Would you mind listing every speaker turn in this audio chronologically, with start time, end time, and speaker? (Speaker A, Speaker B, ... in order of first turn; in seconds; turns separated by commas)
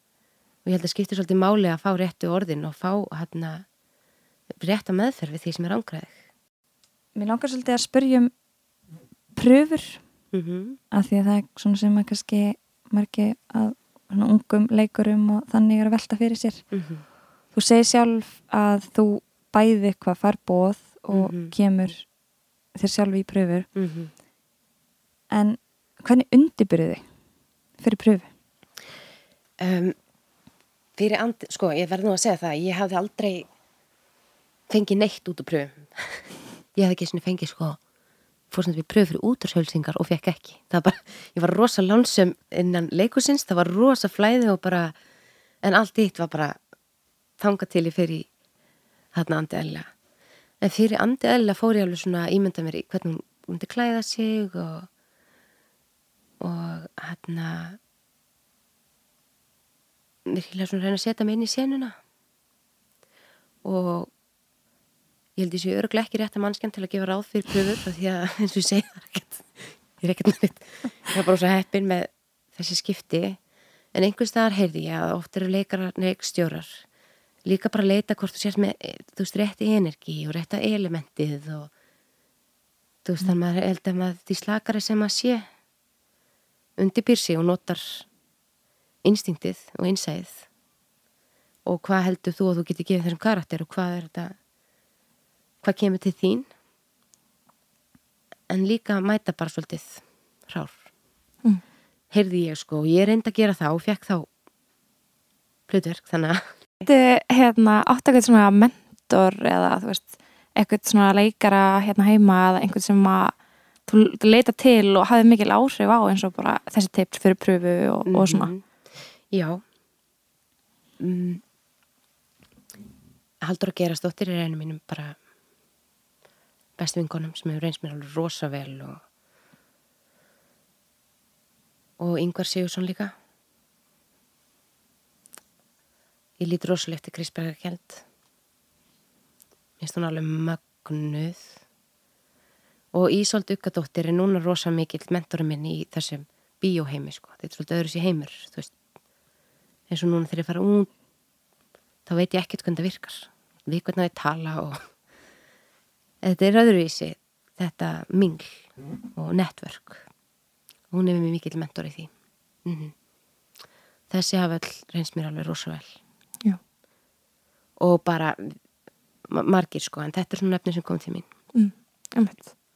Speaker A: 0.7-3.6, Speaker A: 4.6-6.2, Speaker B: 7.2-8.3, Speaker B: 9.3-10.0, Speaker A: 10.3-10.8, Speaker B: 10.9-16.6, Speaker A: 16.7-17.0, Speaker B: 17.5-22.1, Speaker A: 21.1-21.5, Speaker B: 22.8-23.7, Speaker A: 23.8-24.1, Speaker B: 25.3-27.0, Speaker B: 27.8-28.3, Speaker A: 29.6-30.0, Speaker A: 31.0-33.5, Speaker A: 34.7-37.8, Speaker A: 38.5-44.9, Speaker A: 45.6-46.6, Speaker A: 47.4-48.3, Speaker A: 49.1-49.9, Speaker A: 50.6-54.9, Speaker A: 56.4-57.8, Speaker A: 60.3-62.0, Speaker A: 63.6-64.1, Speaker A: 65.4-73.4, Speaker A: 73.9-76.8, Speaker A: 77.5-81.7, Speaker A: 83.0-85.5, Speaker A: 86.8-88.1, Speaker A: 89.0-90.5, Speaker A: 91.7-94.3, Speaker A: 95.6-96.5, Speaker A: 98.5-100.8, Speaker A: 102.1-104.3, Speaker A: 105.7-106.9, Speaker C: 106.8-113.3, Speaker C: 113.9-118.5, Speaker A: 118.1-118.6, Speaker A: 119.3-119.6, Speaker A: 121.0-121.4, Speaker A: 123.4-125.2, Speaker A: 126.8-129.0, Speaker A: 132.0-133.1, Speaker A: 136.4-138.0, Speaker A: 139.8-141.6, Speaker A: 142.9-148.7, Speaker A: 149.9-150.9, Speaker A: 152.1-154.8, Speaker A: 156.2-158.6, Speaker A: 159.2-160.1, Speaker A: 160.9-162.1, Speaker A: 162.7-162.9, Speaker A: 164.1-165.9, Speaker A: 167.8-168.6, Speaker A: 169.3-171.3, Speaker C: 171.5-172.5